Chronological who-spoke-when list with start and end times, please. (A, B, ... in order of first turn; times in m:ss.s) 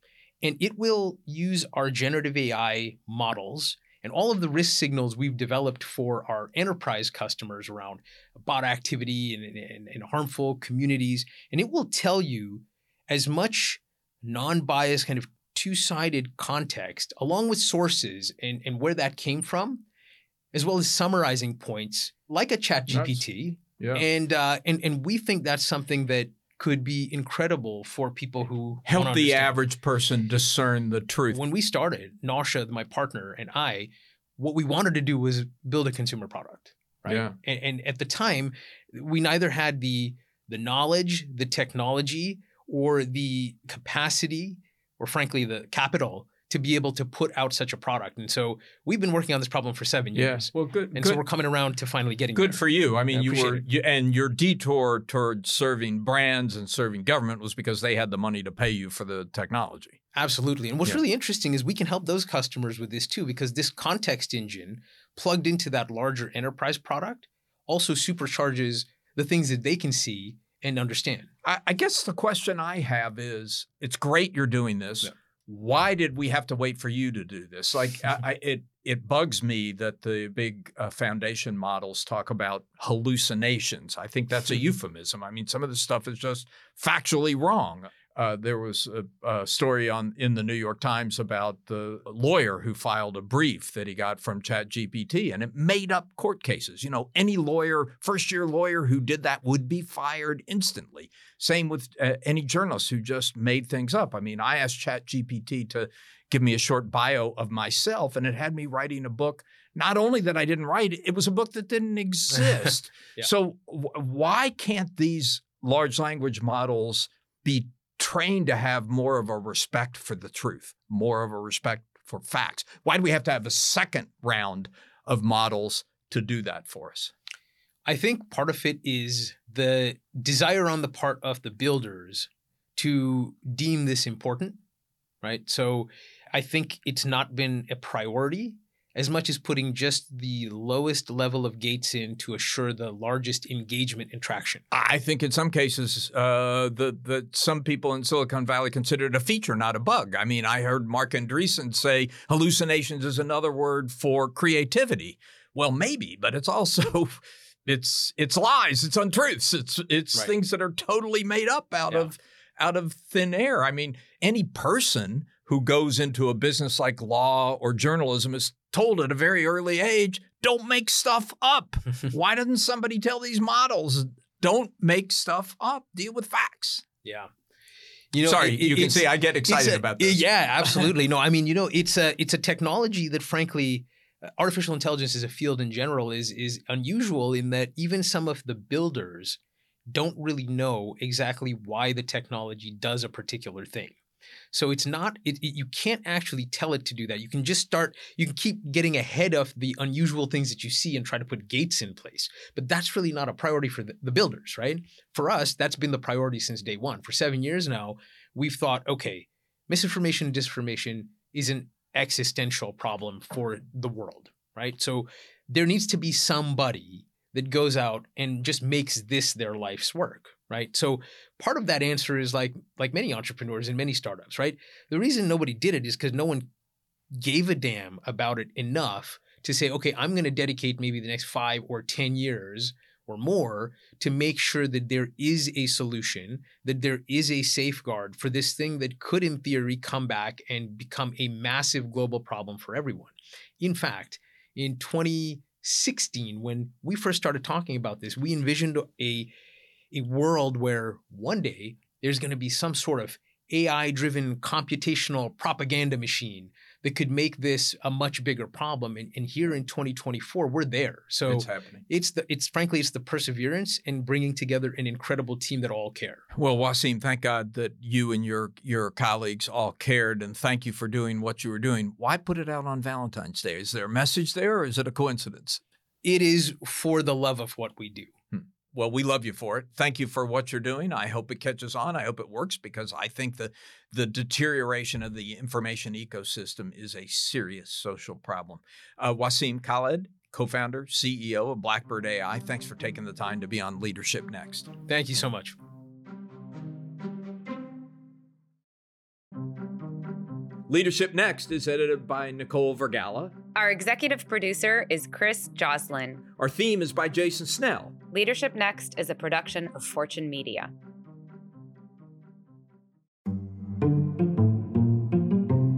0:00.4-0:19.8 A
0:20.5-0:29.6 A
0:22.9-0:23.2 B
0:28.8-0:31.4 B
0:31.3-0:53.6 A
0:37.1-0:37.3 B
0:50.1-0:51.2 B
0:52.4-1:00.0 B
1:00.1-1:11.3 A
1:11.4-2:07.1 B
2:07.8-2:14.6 A
2:15.2-2:24.6 A
2:24.7-2:56.8 B
2:57.0-2:57.3 A
2:58.1-3:09.4 A
2:58.2-3:00.2 B
3:09.9-3:14.0 A
3:14.5-3:46.5 A
3:47.1-4:09.3 A
4:09.9-4:26.2 A
4:21.3-4:21.8 B
4:26.3-4:35.6 B
4:36.0-4:38.1 A
4:38.3-4:54.7 B
4:54.9-4:55.6 A
5:00.7-5:03.4 B
5:03.5-5:06.2 C
5:06.4-5:07.9 B
5:08.1-5:10.7 C